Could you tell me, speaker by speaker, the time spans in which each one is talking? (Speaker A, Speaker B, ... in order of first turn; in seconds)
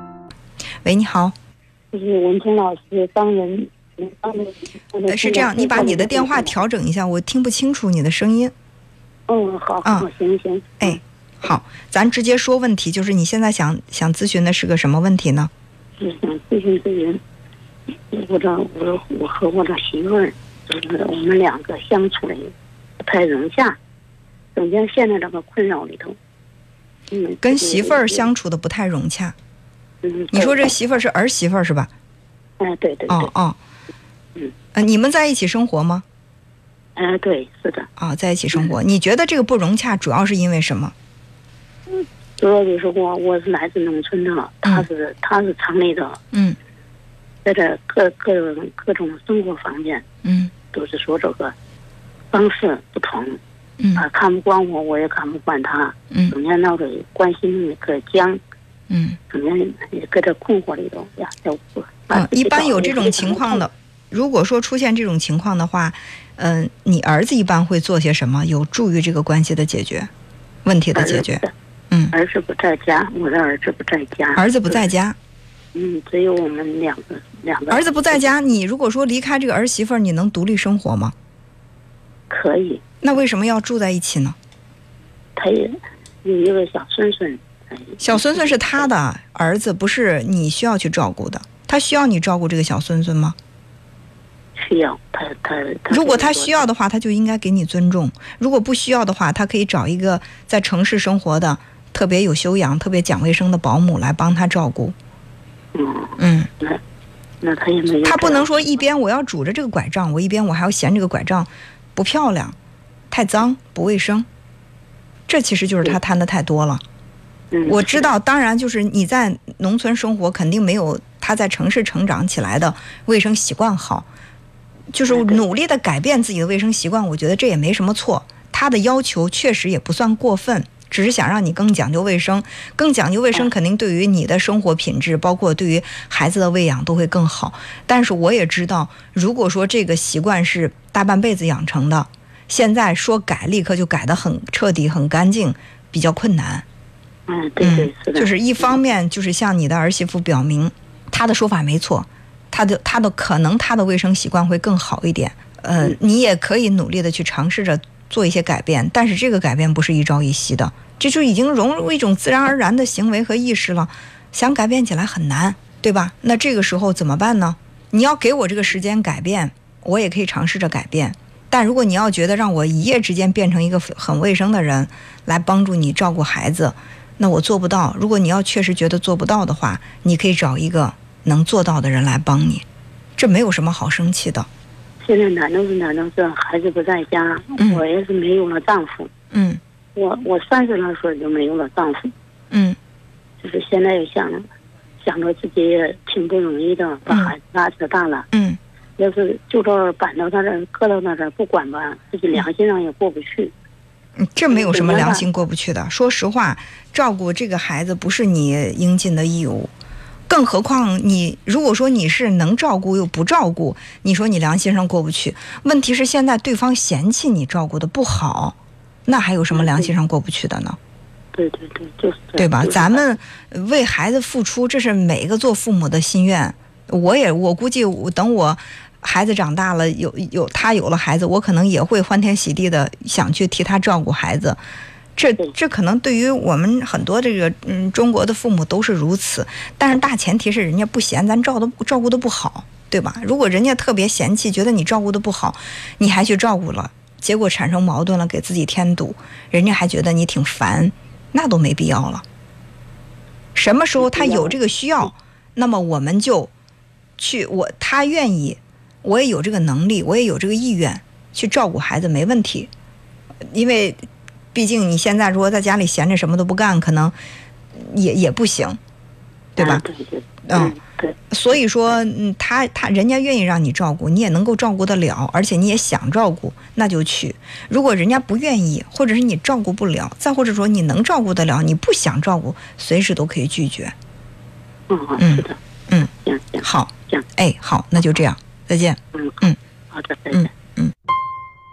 Speaker A: 0.8-1.4, 5.1-8.5, 10.8-15.5, 27.4-29.4, 30.3-31.9, 33.1-33.6, 34.7-36.0, 38.0-40.9, 46.3-46.6, 50.2-50.5, 53.8-54.0, 58.9-59.2, 62.1-70.1, 70.7-72.1, 74.4-75.2, 77.7-81.1, 83.0-84.4, 88.0-93.4, 95.9-105.0, 106.2-106.5, 108.0-112.6, 113.1-114.3, 115.3-116.8, 117.7-124.1, 124.9-146.7, 147.6-182.7, 183.2-184.5, 189.3-189.6, 192.5-192.8, 197.1-197.3, 198.3-198.6, 204.2-209.7, 210.3-220.8, 222.4-234.6, 235.2-252.2, 253.6-256.5, 257.2-262.7, 263.5-264.0, 264.5-267.1, 267.8-268.8, 269.6-269.8, 270.5-270.8, 271.3-283.9, 285.2-286.1, 286.6-289.6, 290.3-290.9
Speaker B: 1.9-6.6, 9.3-11.0, 16.0-17.2, 18.1-23.8, 24.6-26.2, 27.1-28.3, 30.0-30.7, 32.6-33.3, 37.0-37.9, 41.9-46.2, 47.4-50.0, 50.7-51.5, 52.3-53.4, 54.0-58.4, 59.3-63.6, 70.9-71.5, 72.1-74.9, 75.7-78.3, 82.3-82.8, 85.4-88.9, 94.6-96.7, 105.7-106.8, 107.4-108.5, 117.5-118.1, 125.1-125.4, 147.3-148.8, 185.0-189.1, 189.9-192.1, 193.4-194.4, 195.0-198.3, 199.0-203.5, 204.5-205.3, 219.5-219.9, 221.3-223.1, 254.0-254.6, 269.6-271.2, 284.9-285.6, 286.1-287.3, 289.1-290.5